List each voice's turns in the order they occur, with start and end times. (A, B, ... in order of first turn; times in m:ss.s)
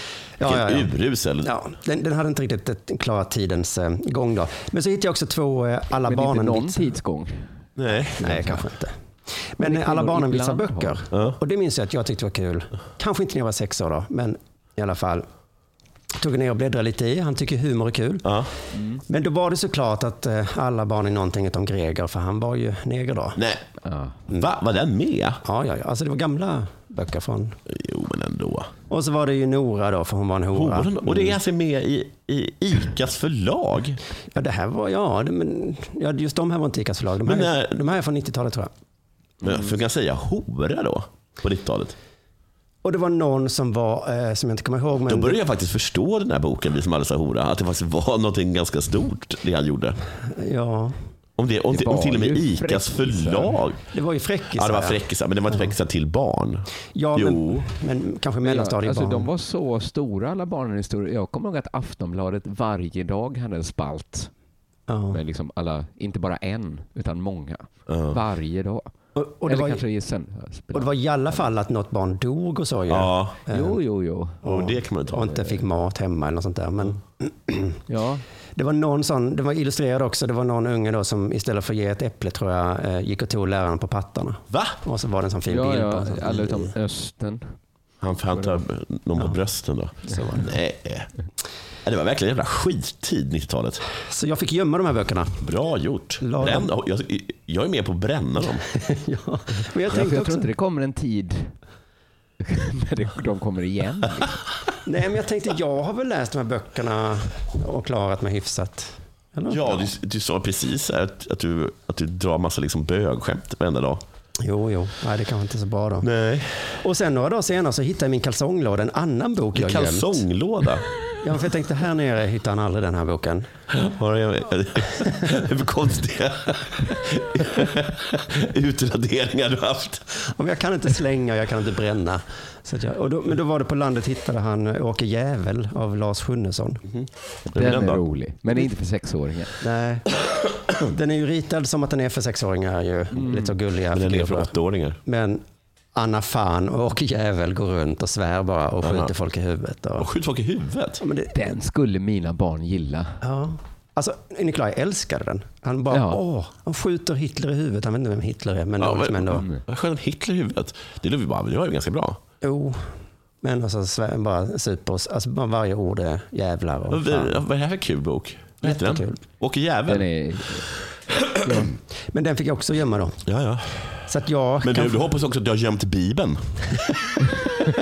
0:00.4-0:07.0 A
0:00.4-0:01.5 B
0:06.0-0:07.6 C
0:07.8-0:08.2 B
0:08.0-0:08.9 A
0:08.2-0:08.6 C
0:09.5-0:15.2 A
0:09.6-0:11.0 C
0:11.1-0:11.4 B
0:16.2-0:18.4 A
0:18.2-0:18.5 B
0:19.1-0:23.4 A
0:23.4-0:23.6 B
0:23.8-0:24.2 C
0:24.3-0:25.4 B
0:25.4-0:27.6 A
0:27.7-0:28.7 B
0:28.9-0:31.4 A
0:30.5-0:34.0 B
0:34.3-0:38.7 A
0:37.2-0:37.7 B
0:39.4-0:41.9 B
0:42.8-0:45.4 A
0:45.0-0:50.0 B
0:50.3-0:50.9 A
0:51.4-0:53.8 B
0:51.7-0:53.6 C
0:53.9-0:55.7 A
0:54.6-0:57.6 B
0:56.9-0:59.3 A
0:58.4-1:04.3 C
1:04.9-1:05.2 A
1:05.1-1:08.9 C
1:07.9-1:08.1 B
1:09.1-1:09.8 A
1:09.4-1:11.5 C
1:10.7-1:13.8 A
1:12.9-1:13.4 B
1:13.5-1:14.4 C
1:14.4-1:17.8 A
1:14.4-1:15.3 B
1:17.9-1:18.2 C
1:18.6-1:26.7 A
1:24.5-1:24.8 B
1:25.5-1:27.6 C
1:28.0-1:31.1 B
1:30.1-1:30.5 A
1:31.8-1:33.8 B
1:34.0-1:35.4 A
1:35.4-1:38.6 B
1:36.2-1:36.7 A
1:38.7-1:40.5 A
1:39.9-1:41.5 C
1:42.4-1:44.4 C
1:44.8-1:49.9 A
1:49.5-1:54.0 B
1:54.4-1:56.1 A
1:56.0-1:56.8 B
1:56.8-2:00.2 A
1:59.5-2:00.9 B
2:01.2-2:03.5 A
2:03.7-2:10.2 B
2:10.3-2:16.8 A
2:16.9-2:18.0 B
2:17.5-2:19.6 C
2:19.6-2:20.1 A
2:20.8-2:24.5 A
2:23.1-2:23.5 C
2:23.9-2:25.0 B
2:25.0-2:25.4 A
2:25.9-2:30.1 A
2:28.8-2:29.1 B
2:30.0-2:31.0 B
2:31.0-2:31.4 A
2:31.3-2:33.2 C
2:33.2-2:39.4 A
2:35.9-2:36.2 C
2:38.8-2:42.2 B
2:39.3-2:39.6 C
2:42.4-2:42.8 A
2:43.4-2:47.4 A
2:46.9-2:50.1 B
2:48.6-2:49.2 A
2:49.9-2:50.7 C
2:51.4-2:51.7 C
2:52.1-2:53.2 A
2:53.2-2:54.0 B
2:54.1-2:55.1 A
2:54.6-2:57.0 B